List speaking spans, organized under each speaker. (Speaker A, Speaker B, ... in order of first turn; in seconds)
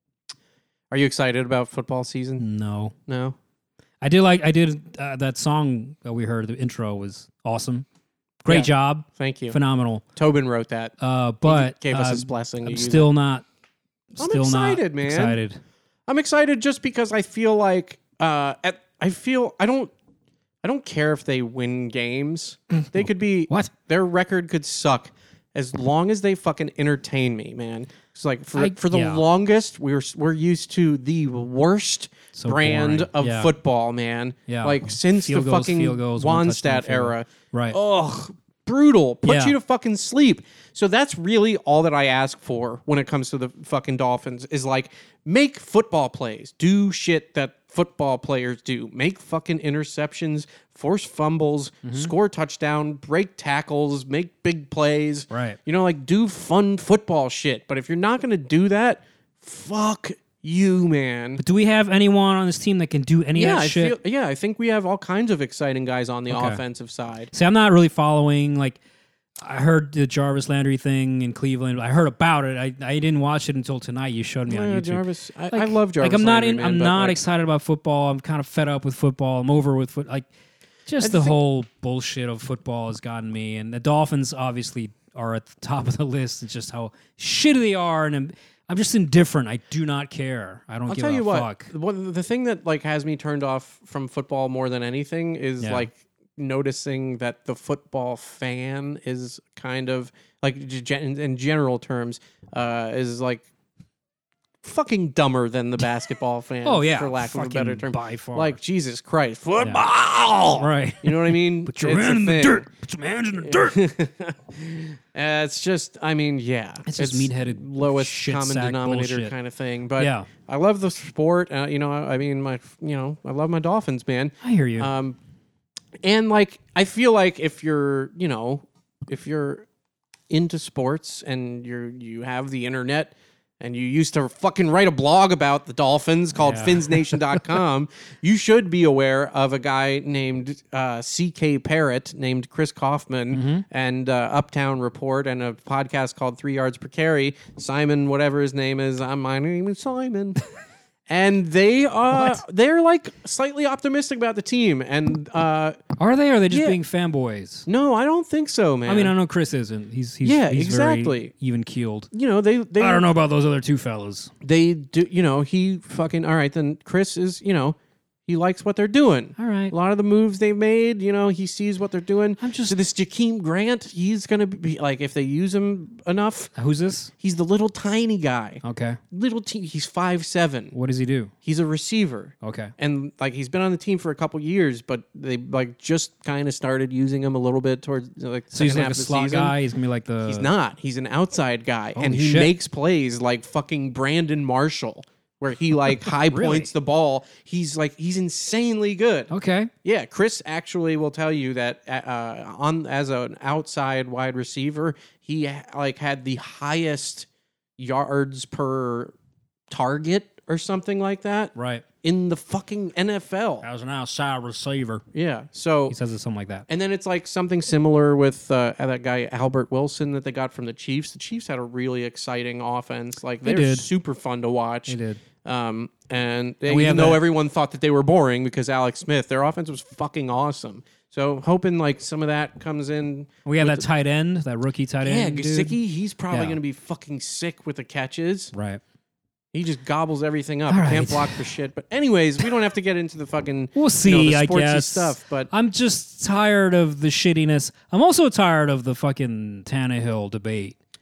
Speaker A: 0.9-2.4, 3.1-3.4, 8.5-9.6, 10.1-13.1, 14.2-15.4, 16.1-19.9, 20.6-61.4, 63.3-67.3, 74.5-77.2, 81.0-81.3, 90.9-103.5, 104.6-112.7, 113.4-125.2, 126.0-129.6, 130.3-150.4, 151.1-155.8, 156.5-156.8, 157.7-159.1, 160.2-161.3, 162.1-163.1, 164.4-167.8, 168.3-176.5, 177.2-180.7, 181.4-189.6, 190.2-199.3, 199.8-207.3, 207.8-209.1, 209.7-213.7, 215.1-215.9, 216.7-233.8, 235.0-238.5, 239.5-245.5
Speaker B: 2.4-2.9, 4.0-7.8, 8.4-10.1, 11.0-13.4, 14.1-15.6, 22.8-23.7, 28.5-29.2, 32.3-33.5, 34.5-37.8, 39.2-39.6, 51.8-52.1, 55.3-55.6, 61.4-64.0, 66.3-66.6, 67.3-68.8, 69.4-80.3, 80.8-91.7, 95.6-95.9, 106.6-108.6, 110.5-113.8, 116.8-119.3, 120.0-120.3, 124.4-124.9, 136.4-137.4, 143.3-143.6, 152.1-152.4, 156.0-157.7, 158.8-162.1, 162.8-164.3, 169.4-169.7, 172.4-172.8, 176.5-177.1, 178.6-179.0, 180.7-181.3, 182.4-182.7, 188.5-190.5, 191.9-192.5, 196.1-196.7, 199.3-199.7, 211.5-211.8, 213.6-215.0, 215.9-216.7, 223.4-223.9, 224.9-225.2, 226.7-227.2, 233.4-235.8, 236.3-236.6, 238.5-238.8, 240.7-241.5, 243.8-250.8